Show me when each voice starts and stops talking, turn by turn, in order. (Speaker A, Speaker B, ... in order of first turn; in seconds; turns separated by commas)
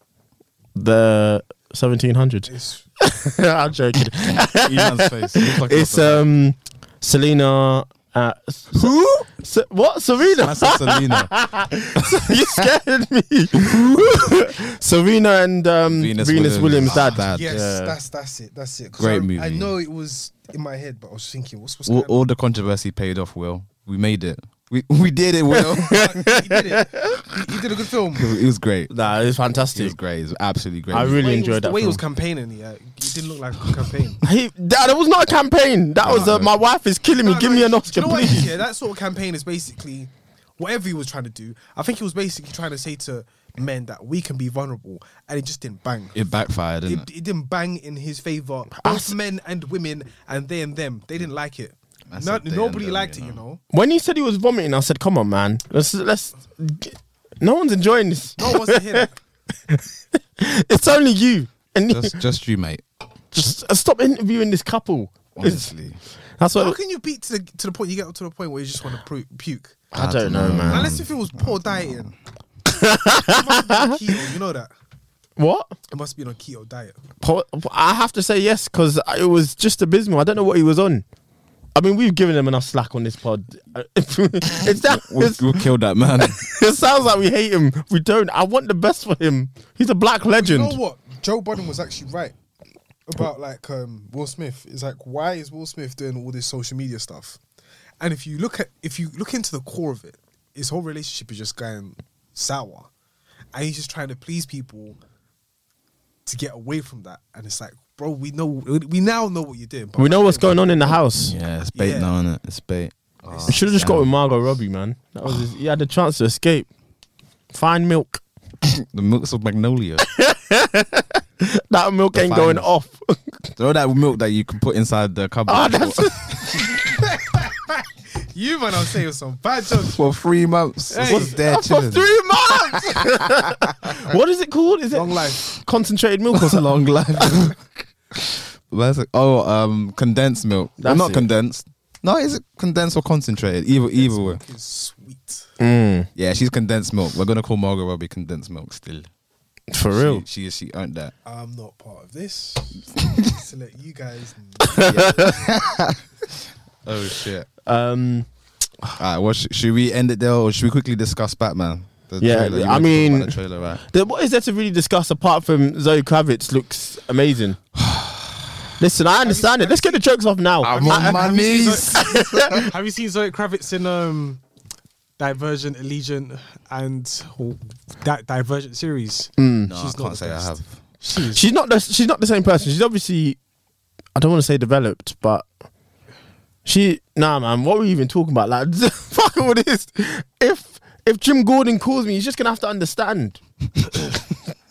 Speaker A: 0.7-17.9, Speaker B: 2.5-2.9, Speaker C: 4.4-6.3, Speaker C: 8.7-9.0, Speaker C: 10.3-12.7, Speaker C: 13.6-14.4, Speaker C: 15.9-17.6, Speaker B: 16.9-22.2, Speaker C: 19.0-19.7, Speaker C: 21.9-26.1, Speaker A: 25.5-27.1, Speaker B: 25.8-28.4, Speaker C: 28.1-28.9, Speaker A: 28.9-29.9, Speaker C: 29.7-31.3, Speaker A: 30.9-32.0, Speaker B: 31.0-34.2, Speaker A: 34.2-38.5, Speaker C: 36.0-36.5, Speaker B: 36.1-36.4, Speaker B: 37.2-46.2, Speaker C: 46.1-47.1, Speaker B: 46.8-53.6, Speaker A: 48.7-49.1, Speaker C: 52.1-53.4, Speaker A: 53.7-59.1, Speaker B: 58.4-59.2, Speaker A: 59.7-62.2, Speaker C: 61.9-62.8, Speaker A: 63.3-65.7, Speaker C: 65.3-66.0, Speaker A: 66.4-66.8, Speaker B: 66.5-69.8, Speaker A: 69.9-70.9, Speaker C: 69.9-72.1, Speaker B: 70.7-72.1, Speaker A: 72.7-74.0, Speaker B: 73.3-74.7, Speaker A: 75.4-75.7, Speaker B: 75.9-77.0, Speaker A: 77.2-81.0, Speaker A: 81.7-90.8, Speaker C: 84.5-86.4, Speaker B: 90.4-92.3, Speaker B: 93.1-97.4, Speaker B: 98.0-102.9, Speaker B: 103.5-105.0, Speaker B: 106.2-110.9, Speaker A: 110.0-111.3, Speaker C: 111.2-114.1, Speaker B: 111.7-112.1, Speaker B: 113.3-113.6, Speaker A: 113.5-116.7, Speaker A: 117.5-118.2, Speaker C: 118.6-120.1, Speaker A: 120.0-123.5, Speaker C: 122.1-122.7, Speaker C: 123.6-126.8, Speaker A: 125.5-126.6, Speaker B: 127.0-130.0, Speaker C: 129.7-132.1, Speaker B: 130.9-131.6, Speaker A: 131.0-136.7, Speaker C: 132.9-134.1, Speaker B: 134.9-135.5, Speaker C: 136.3-137.6, Speaker C: 138.1-144.4, Speaker A: 140.8-141.3, Speaker B: 143.9-145.5, Speaker A: 145.6-146.1, Speaker C: 146.2-149.1, Speaker A: 149.7-150.2, Speaker C: 149.9-151.1, Speaker B: 151.2-155.9, Speaker A: 154.6-155.3, Speaker C: 154.8-156.0, Speaker C: 156.8-157.5, Speaker A: 157.7-158.3, Speaker C: 158.9-163.8, Speaker A: 162.2-167.6, Speaker C: 167.8-168.5, Speaker A: 168.8-171.3, Speaker B: 169.2-170.1, Speaker C: 170.6-172.7, Speaker B: 170.6-174.4, Speaker A: 171.8-172.7, Speaker B: 175.2-181.4, Speaker A: 179.4-179.7, Speaker C: 179.7-180.8, Speaker A: 181.2-183.4, Speaker A: 184.2-185.5, Speaker A: 186.6-193.4